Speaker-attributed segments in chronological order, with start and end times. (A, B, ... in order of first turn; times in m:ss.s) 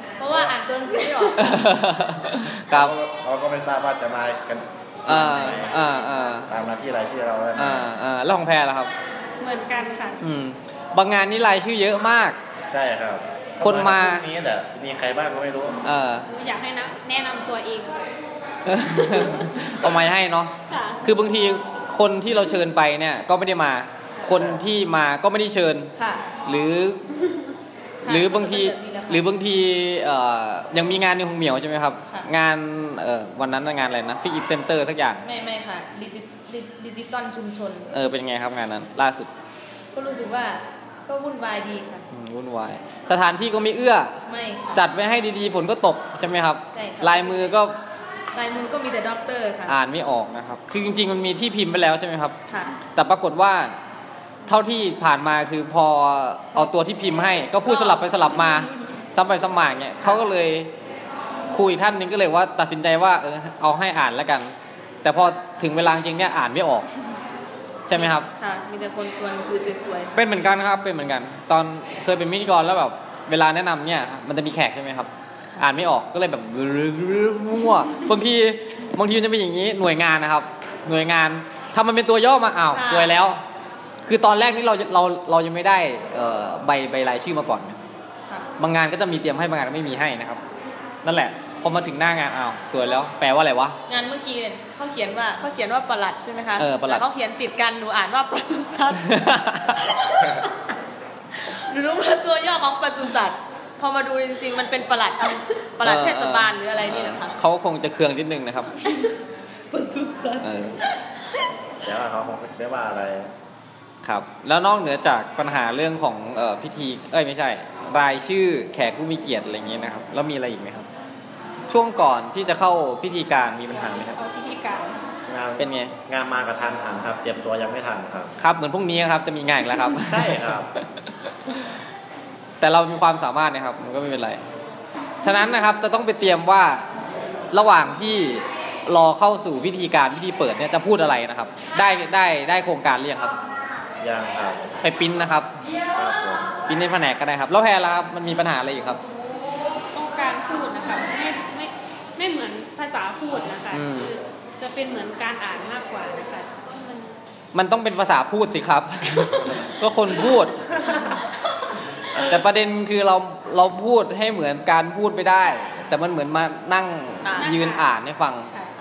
0:00.2-0:01.6 A
0:00.3-0:00.6 B
0:01.4-0:03.0 C
0:02.7-0:05.8 B
0:05.0-0:06.5 C
0:05.2-0:05.6 A
0:06.4-0:07.9 B
0:07.6-0:08.9 C
0:09.4-0:10.2 D
0:10.2-0:12.4 C
0:12.7-0:15.8 B
0:13.6-0:14.3 C
0:15.8-0:16.3 C
0:16.3-0:18.0 D
0:18.6-0:25.9 C
0:20.7-0:21.0 D
0:24.3-0:24.6 B
0:26.0-0:26.3 A
0:26.5-0:27.0 C
0:28.0-0:29.3 A
0:28.1-0:35.2 C
0:35.2-0:37.9 A
0:37.9-0:39.3 C
0:39.9-0:42.1 A
0:42.1-0:44.2 C
0:44.3-0:44.8 A
0:44.7-0:47.7 C
0:46.7-0:47.5 A
0:48.3-0:49.8 A
0:49.7-0:52.4 C
0:52.5-0:52.8 A
0:53.0-0:53.8 C
0:54.5-1:00.7 C
1:01.5-1:06.9 C
1:07.9-1:08.3 C
1:07.9-1:10.1 A
1:10.2-1:23.4 C
1:22.7-1:23.1 A
1:24.0-1:27.8 C
1:28.6-1:30.4 C
1:31.0-1:33.8 C
1:33.9-1:40.5 A
1:36.6-1:37.0 C
1:39.0-1:39.8 C
1:41.3-1:47.4 A
1:45.8-1:48.7 C
1:48.8-1:49.2 A
1:49.7-1:51.1 A
1:50.4-1:50.8 C
1:51.8-1:53.3 B
1:54.0-2:00.9 C
2:01.7-2:04.2 C
2:03.9-2:05.0 D
2:05.3-2:08.3 B
2:05.6-2:06.0 C
2:08.4-2:11.8 C
2:10.1-2:10.7 B
2:12.6-2:14.4 C
2:15.2-2:16.9 C
2:17.5-2:23.4 C
2:24.0-2:24.7 B
2:24.8-2:25.5 C
2:25.9-2:26.6 B
2:26.7-2:29.0 C
2:29.9-2:37.2 D
2:33.7-2:34.1 C
2:37.5-2:40.6 C
2:42.3-2:48.5 C
2:47.2-2:47.5 A
2:47.4-2:47.9 D